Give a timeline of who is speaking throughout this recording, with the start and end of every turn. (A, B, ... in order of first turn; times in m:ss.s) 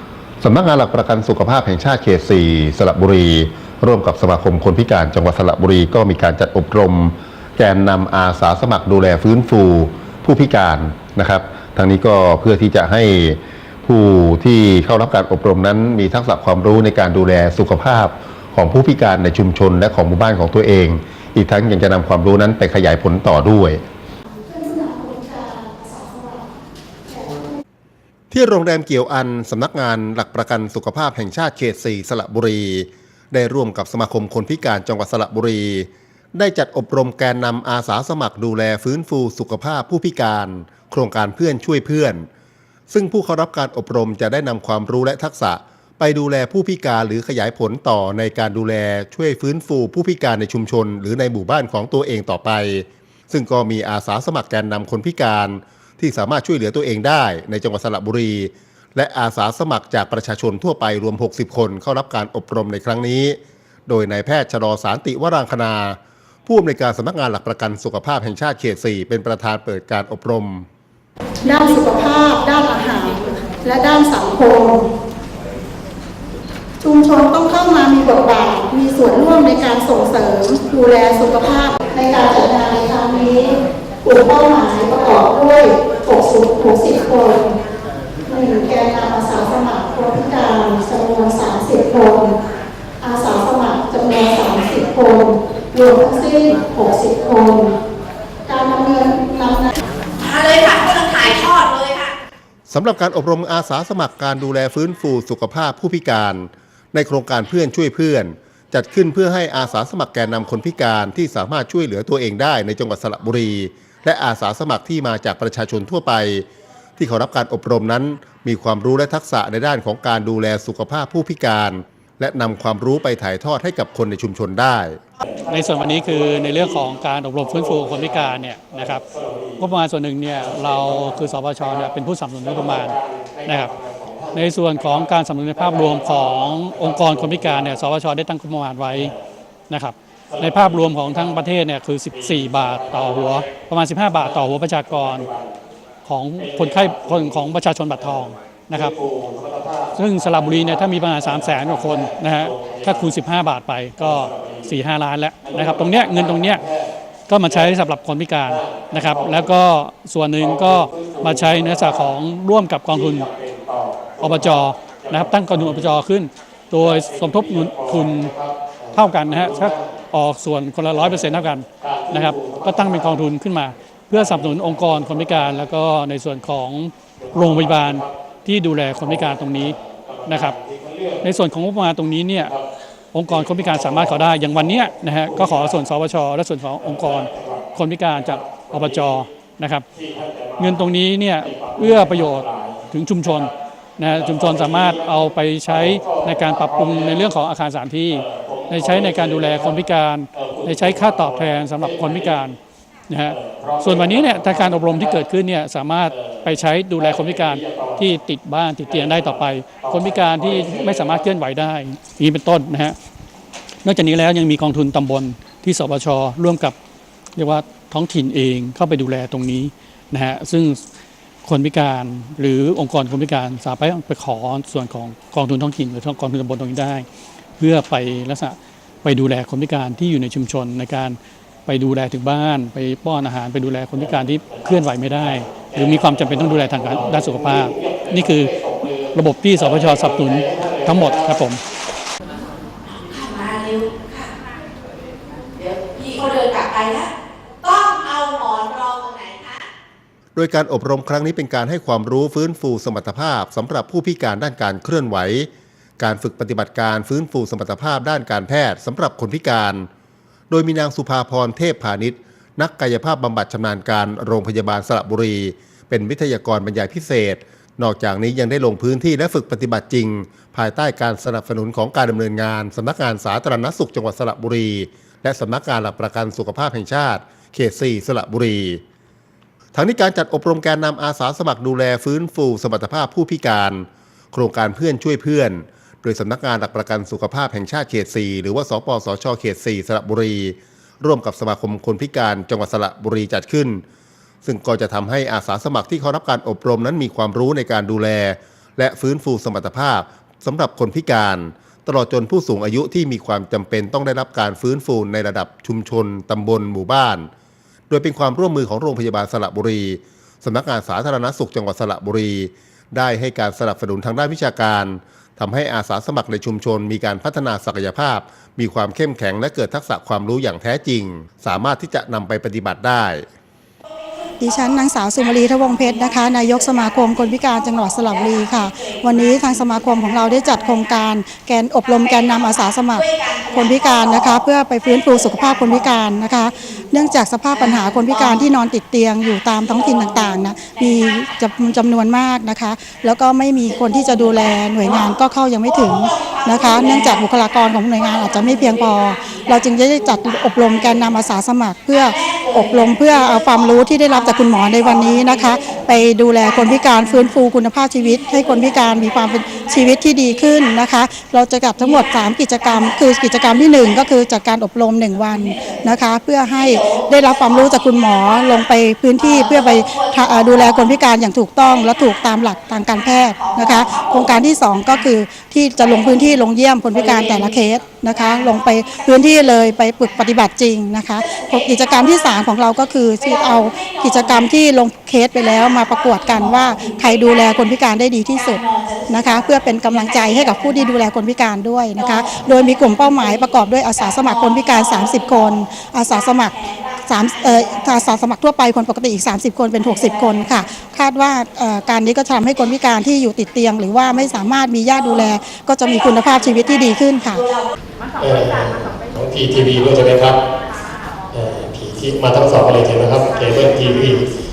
0:00.4-0:23.8 A
0:24.4-0:26.6 B
0:27.1-0:27.4 B
0:28.3-0:42.3 A
0:42.9-1:10.6 A
1:11.4-1:14.9 B
1:16.8-1:27.6 B
1:28.3-1:32.4 B
1:33.0-1:37.7 B
1:38.5-1:39.7 B
1:40.2-1:42.1 C
1:42.7-2:05.0 A
2:05.4-2:09.0 D
2:05.5-2:09.6 E
2:09.6-2:13.7 D
2:10.3-2:17.8 E
2:14.3-2:19.1 D
2:19.7-2:25.3 D
2:20.3-2:21.4 E
2:22.1-2:23.5 E
2:24.1-2:25.6 E
2:26.0-2:29.0 D
2:26.4-2:28.2 E
2:28.7-2:33.2 E
2:29.9-2:36.6 D
2:34.0-2:34.7 E
2:35.4-2:36.9 E
2:37.3-2:43.3 D
2:37.4-2:37.7 E
2:38.4-2:39.5 E
2:40.4-2:42.1 E
2:42.9-2:45.9 E
2:44.2-2:48.3 D
2:46.8-2:49.8 E
2:48.9-3:00.6 D
2:51.0-2:51.2 E
2:51.8-2:53.2 E
2:54.1-2:55.6 E
2:57.2-2:58.1 E
2:59.1-3:01.2 E
3:01.2-3:02.5 D
3:03.1-3:09.8 D
3:03.3-3:04.2 E
3:05.2-3:05.8 E
3:06.8-3:09.1 E
3:09.9-3:12.9 E
3:10.6-3:22.6 D
3:14.1-3:17.3 E
3:18.1-3:19.8 E
3:20.3-3:22.4 E
3:23.1-3:33.0 D
3:23.3-3:25.2 E
3:26.1-3:26.4 E
3:27.0-3:28.0 E
3:28.9-3:31.3 E
3:33.8-3:36.7 D
3:37.3-3:40.8 D
3:41.4-3:47.0 D
3:47.6-4:01.6 D
3:54.0-4:01.4 E
4:02.8-4:04.3 C
4:05.6-4:09.6 C
4:10.3-4:19.9 A
4:20.5-4:38.8 A
4:39.7-4:53.8 A
4:54.4-5:07.3 A
5:07.9-5:23.2 A
5:23.8-5:30.9 C
5:24.4-6:47.4 B
5:31.9-5:36.0 C
5:37.5-5:38.5 C
5:39.6-5:41.2 C
5:43.7-5:45.2 C
5:45.7-5:51.1 C
5:52.0-5:57.2 C
5:58.0-6:00.8 C
6:01.8-6:04.0 C
6:05.3-6:05.8 C
6:06.5-6:11.0 C
6:11.6-6:15.0 C
6:15.8-6:16.4 C
6:16.9-6:17.6 C
6:18.1-6:20.2 C
6:21.2-6:22.4 C
6:23.2-6:24.4 C
6:25.4-6:27.7 C
6:28.3-6:30.9 C
6:32.0-6:38.1 C
6:39.8-6:40.6 C
6:45.9-6:47.7 C
6:48.2-6:50.4 E
6:50.7-6:51.2 C
6:51.3-6:54.3 E
6:53.5-6:53.8 C